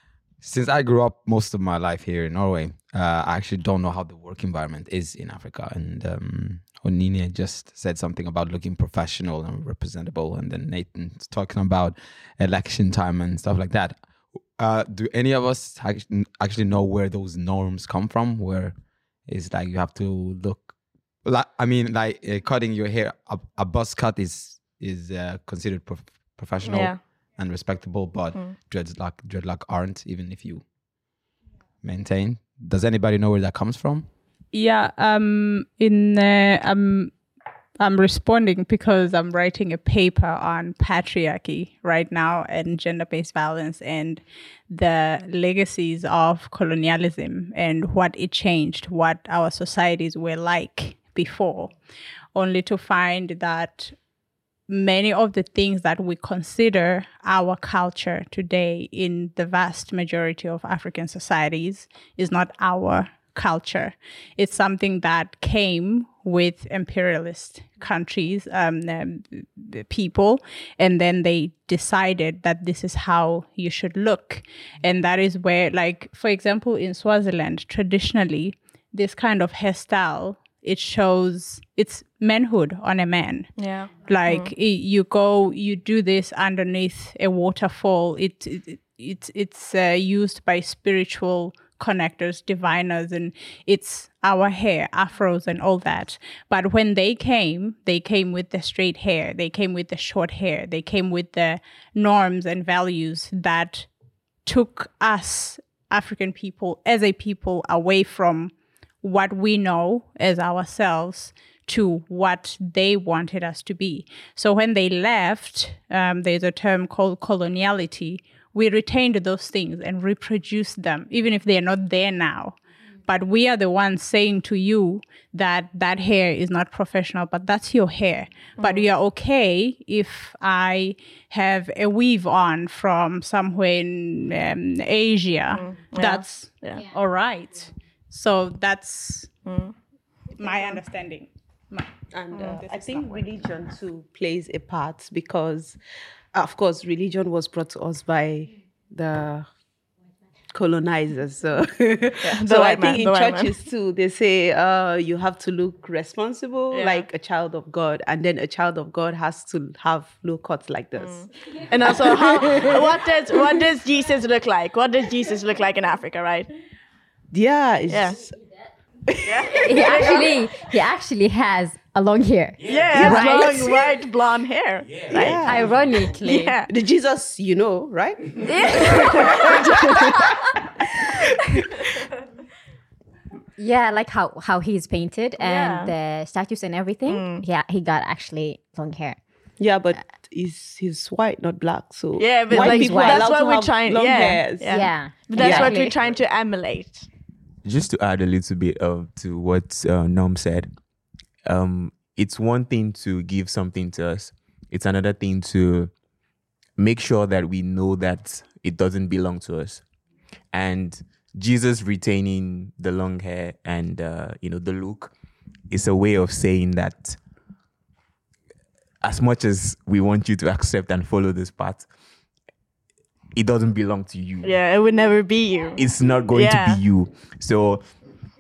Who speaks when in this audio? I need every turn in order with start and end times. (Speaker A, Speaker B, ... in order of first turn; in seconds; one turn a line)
Speaker A: 0.4-31.1
Speaker B: 26.6-27.0
Speaker A: 31.8-34.1
Speaker C: 34.5-37.3
Speaker C: 37.8-51.7
Speaker C: 52.4-54.0
Speaker C: 54.7-139.3
Speaker B: 83.6-84.5
Speaker B: 128.6-128.9
Speaker B: 135.5-136.8
Speaker B: 139.4-139.9
Speaker C: 140.4-143.3
Speaker B: 140.4-140.8
Speaker D: 142.1-145.8
Speaker D: 146.3-149.5
Speaker D: 150.5-161.3
Speaker B: 152.2-153.5
Speaker B: 156.7-157.1
Speaker B: 161.0-166.5
Speaker D: 161.9-163.5
Speaker D: 167.3-168.4
Speaker B: 167.9-168.2
Speaker D: 169.1-169.6
Speaker B: 169.2-170.4
Speaker E: 169.6-173.7
Speaker B: 172.6-176.7
Speaker D: 172.9-173.9
Speaker D: 175.1-175.7
Speaker E: 175.4-176.6
Speaker D: 176.7-180.3
Speaker B: 178.5-179.9
Speaker E: 183.6-189.2
Speaker B: 185.4-185.9
Speaker B: 187.1-187.4
Speaker D: 189.6-195.8
Speaker B: 192.2-197.1
Speaker E: 192.5-193.3
Speaker E: 194.7-196.0
Speaker F: 197.6-200.8
Speaker F: 201.4-205.9
Speaker F: 206.8-209.8
Speaker F: 210.5-215.1
Speaker F: 215.7-217.2
Speaker F: 219.0-221.9
Speaker F: 223.3-224.6
Speaker B: 224.4-226.8
Speaker F: 225.8-227.8